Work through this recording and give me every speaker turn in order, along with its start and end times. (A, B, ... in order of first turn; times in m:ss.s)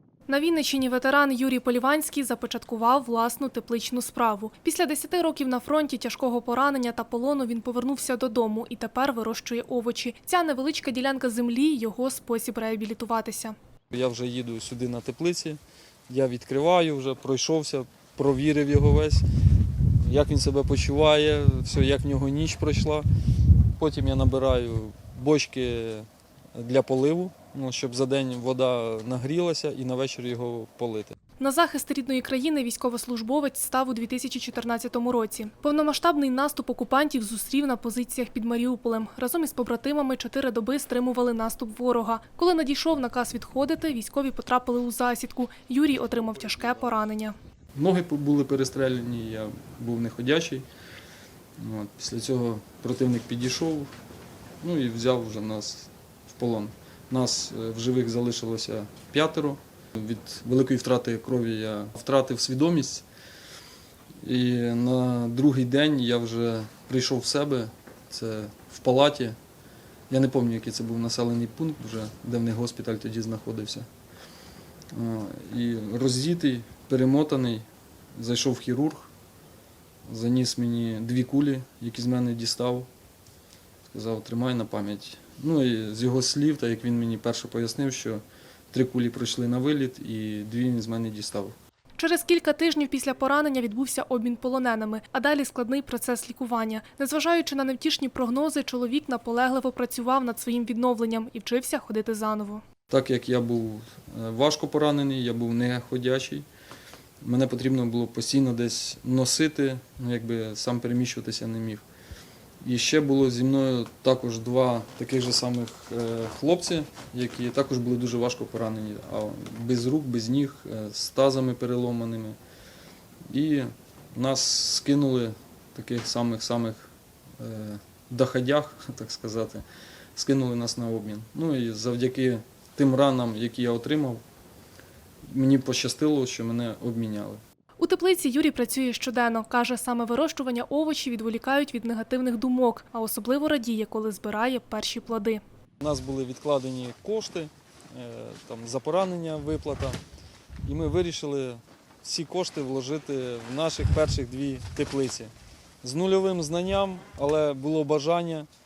0:00.3-0:13.6 A
0:13.9-0:19.3 B
0:19.9-0:23.1 B
0:23.8-0:31.2 B
0:31.4-0:47.4 A
0:47.8-0:50.7 B
0:51.6-0:53.9 B
0:54.6-1:03.0 B
1:04.2-1:09.4 B
1:10.1-1:13.9 B
1:14.9-1:19.1 B
1:20.1-1:22.9 B
1:23.9-1:31.6 B
1:32.0-1:42.6 A
1:42.9-1:46.5 B
1:47.2-1:51.8 B
1:52.6-2:02.4 B
2:03.3-2:14.2 B
2:15.3-2:17.4 B
2:17.8-2:25.4 A
2:25.8-2:30.0 B
2:30.6-2:38.5 B